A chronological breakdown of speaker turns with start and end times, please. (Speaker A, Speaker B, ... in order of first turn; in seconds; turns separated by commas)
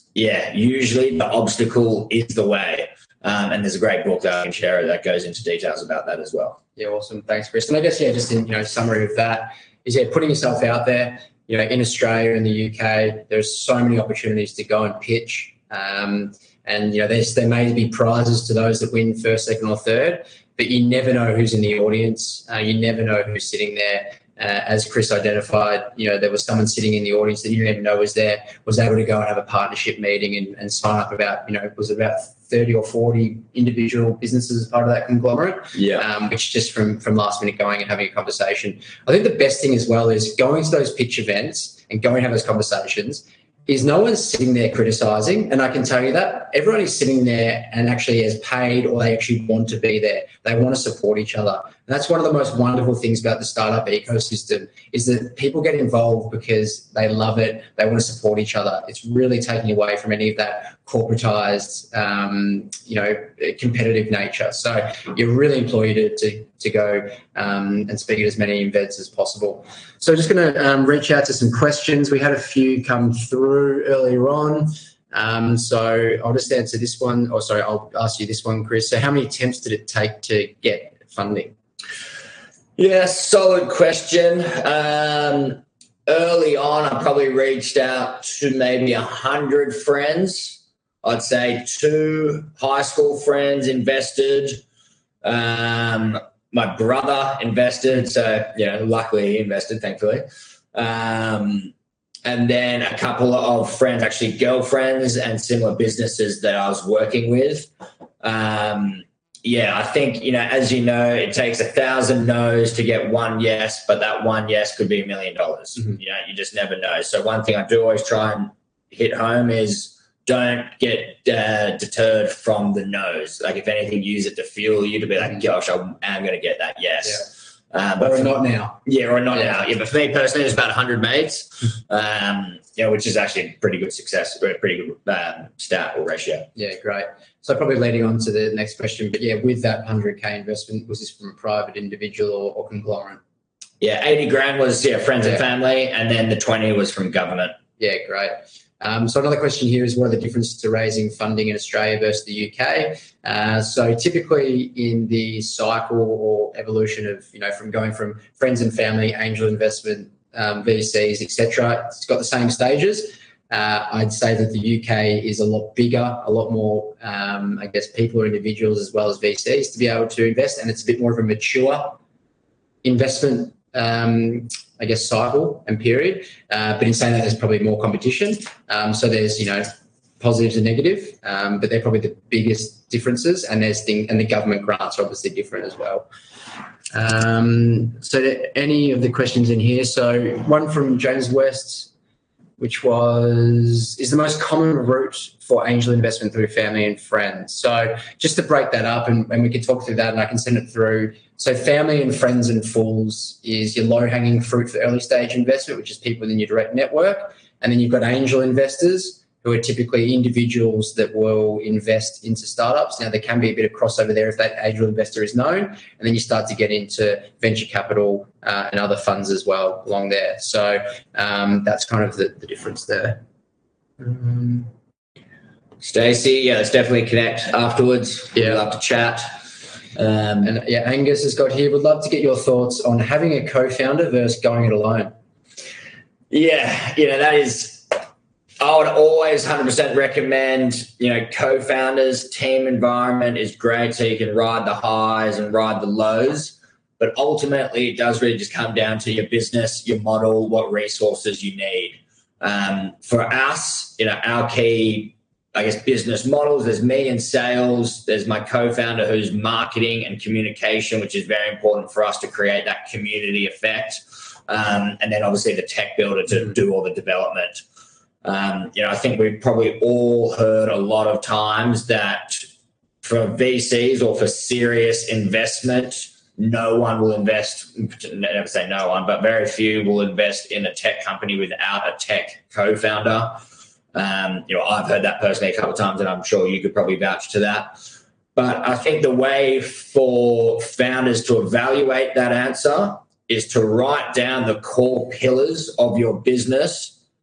Speaker A: 0.1-6.6, Speaker B: 6.8-81.5, Speaker A: 35.7-36.0, Speaker A: 82.8-94.6, Speaker A: 95.2-101.7, Speaker A: 102.2-107.7, Speaker A: 108.2-128.3, Speaker B: 128.0-129.7, Speaker A: 128.8-136.5, Speaker B: 136.6-143.2, Speaker A: 143.8-147.6, Speaker B: 147.8-172.0, Speaker B: 172.8-186.1, Speaker B: 186.9-191.9, Speaker B: 192.6-223.2, Speaker B: 224.0-224.7, Speaker A: 225.8-229.3, Speaker A: 229.9-230.5, Speaker B: 230.4-235.1, Speaker A: 236.3-238.0, Speaker A: 238.6-267.6, Speaker A: 268.2-272.5, Speaker A: 273.0-283.4, Speaker A: 283.9-287.8, Speaker A: 288.4-297.0